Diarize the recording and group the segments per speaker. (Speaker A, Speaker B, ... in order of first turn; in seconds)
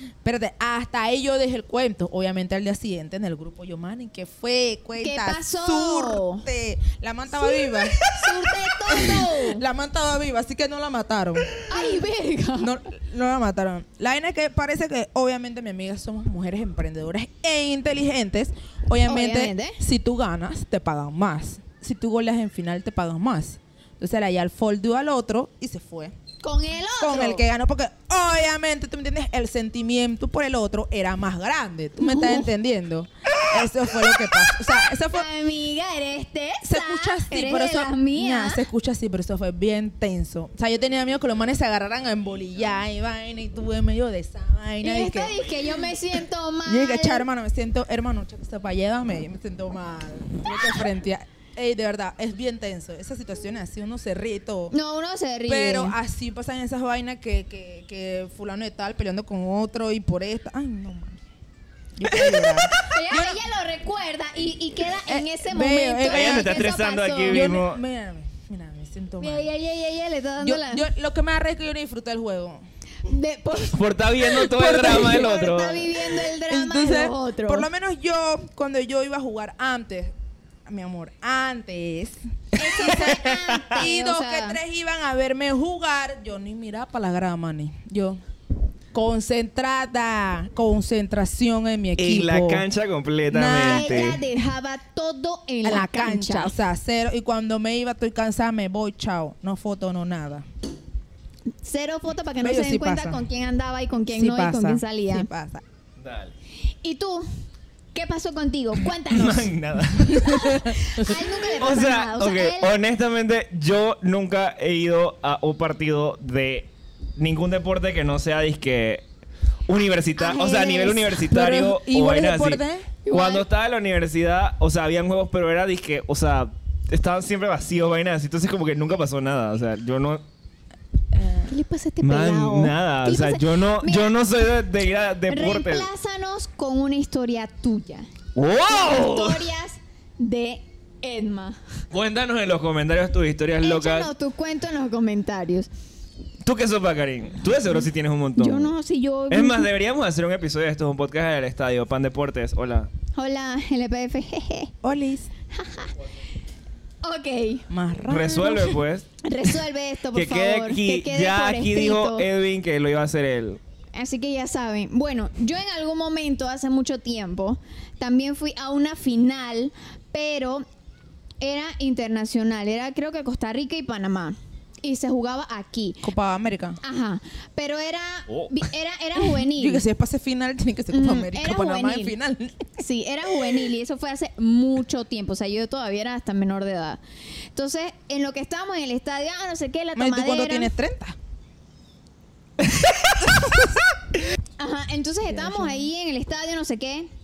Speaker A: 0.2-12.0, 12.6-26.1, 27.0-35.3, 36.6-45.5, 46.6-54.7, 55.5-61.2, 62.0-63.4, 65.0-66.5, 67.3-69.5, 70.4-72.6, 74.4-75.3, 76.3-80.1, 80.7-88.2, 88.9-92.6, 93.3-94.2, 95.6-100.4, 102.4-103.2, 104.1-105.6, 121.1-122.9, 131.1-131.5, 154.8-155.3, 157.7-158.6, 176.0-176.8, 179.2-182.7, 189.9-191.2, 195.3-195.9
Speaker B: 5.0-6.4, 7.3-9.6, 11.7-12.7, 19.1-19.8, 26.4-27.4, 32.0-32.5, 35.1-38.6, 44.8-47.2, 54.7-55.9, 62.8-67.5, 69.2-70.8, 73.0-77.6, 82.6-84.6, 93.6-96.5, 101.6-105.3, 106.8-107.3, 107.9-109.5, 110.0-112.7, 120.2-121.2, 123.0-123.5, 131.5-134.2, 135.3-138.1, 138.7-141.8, 143.6-145.7, 148.3-149.7, 153.2-154.7, 155.5-155.9, 157.0-157.7, 158.4-158.7, 159.2-162.3, 163.9-170.7, 171.4-176.0, 176.8-179.8, 180.9-182.1, 182.8-187.0, 187.5-190.7, 194.6-197.1
Speaker C: 62.1-62.6, 66.0-67.8, 73.7-76.0, 83.1-83.8, 92.0-94.2, 106.0-106.3, 109.0-110.7, 111.5-119.0, 119.7-130.2, 132.0-135.9, 138.3-139.5, 141.9-144.1, 146.4-148.7, 149.3-152.9, 158.1-159.1, 160.1-163.6, 178.3-178.5, 192.6-193.3